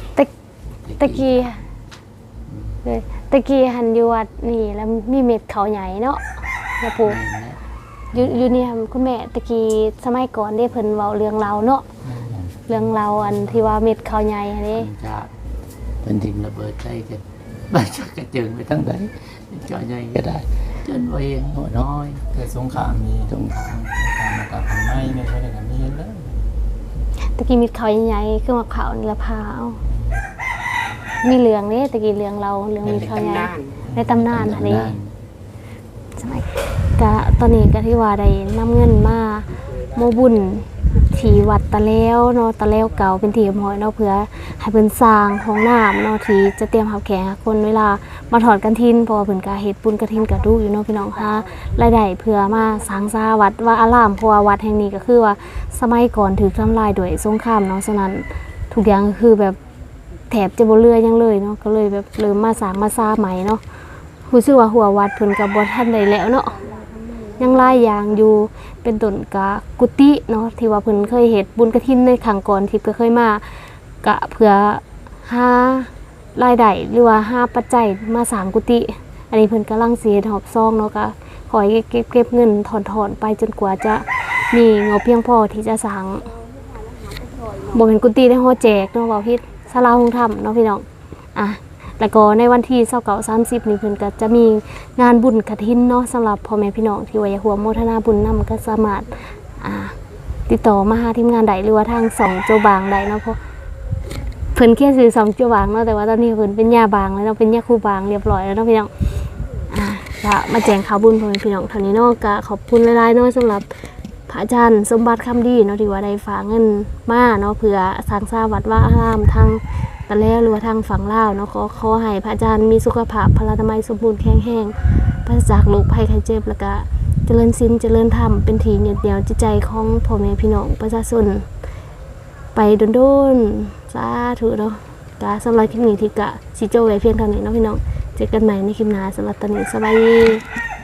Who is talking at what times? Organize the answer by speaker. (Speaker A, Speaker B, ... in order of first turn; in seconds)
Speaker A: 0.7-1.7, 2.5-2.8, 7.0-7.6, 8.1-8.5, 12.0-13.8, 14.7-15.3, 16.0-23.9, 32.8-33.4, 33.9-35.1
Speaker B: 1.0-1.6, 2.8-6.2, 6.8-7.2, 8.1-11.8, 12.7-14.9, 27.4-29.8, 31.2-35.0, 36.1-59.6, 60.3-63.6, 64.2-66.6, 67.4-86.3, 87.7-99.9, 100.5-103.4, 104.5-108.9, 109.7-113.7, 114.3-131.4, 132.5-140.4
Speaker C: 22.3-23.4, 23.9-26.4